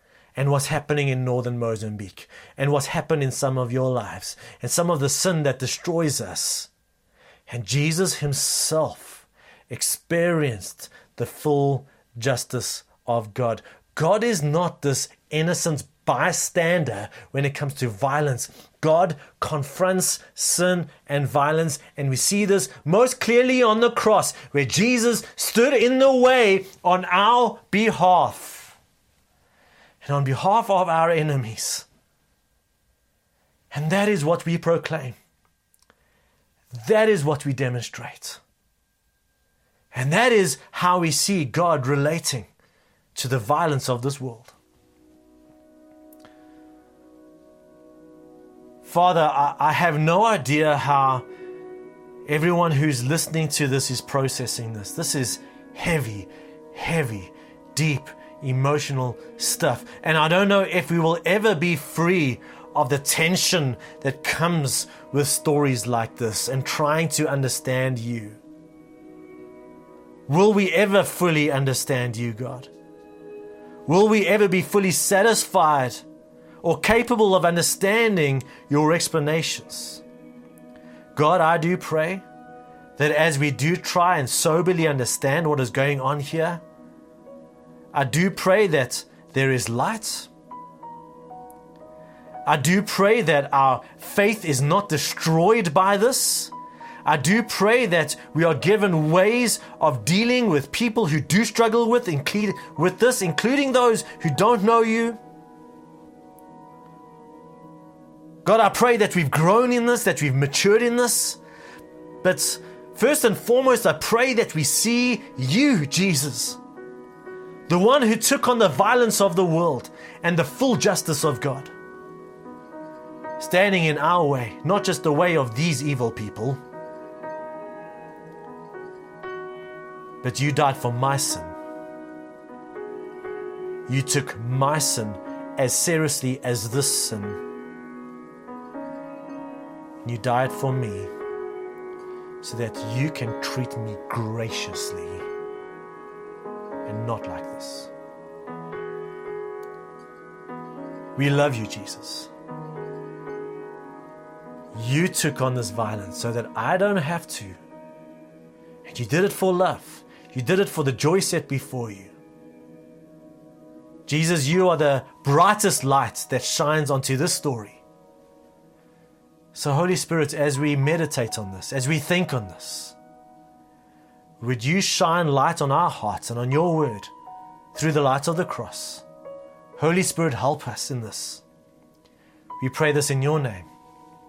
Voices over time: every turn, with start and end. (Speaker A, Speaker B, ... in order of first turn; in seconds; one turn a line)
Speaker A: 0.4-6.7
Speaker A: 7.5-28.8
Speaker A: 30.0-31.9
Speaker A: 33.7-35.2
Speaker A: 36.7-38.4
Speaker A: 39.9-42.5
Speaker A: 43.1-44.5
Speaker A: 48.8-51.3
Speaker A: 52.3-68.4
Speaker A: 70.3-72.7
Speaker A: 73.9-76.0
Speaker A: 76.6-80.0
Speaker A: 81.2-82.2
Speaker A: 83.0-86.6
Speaker A: 87.9-90.3
Speaker A: 92.5-96.5
Speaker A: 97.0-105.2
Speaker A: 108.5-111.4
Speaker A: 112.2-116.6
Speaker A: 117.7-121.7
Speaker A: 123.4-126.6
Speaker A: 130.2-131.6
Speaker A: 133.9-137.4
Speaker A: 140.0-141.1
Speaker A: 142.4-145.3
Speaker A: 146.9-147.9
Speaker A: 151.2-152.3
Speaker A: 154.7-157.6
Speaker A: 158.9-162.1
Speaker A: 164.1-167.8
Speaker A: 169.5-173.0
Speaker A: 174.4-177.1
Speaker A: 177.8-179.0
Speaker A: 179.8-181.4
Speaker A: 182.6-183.7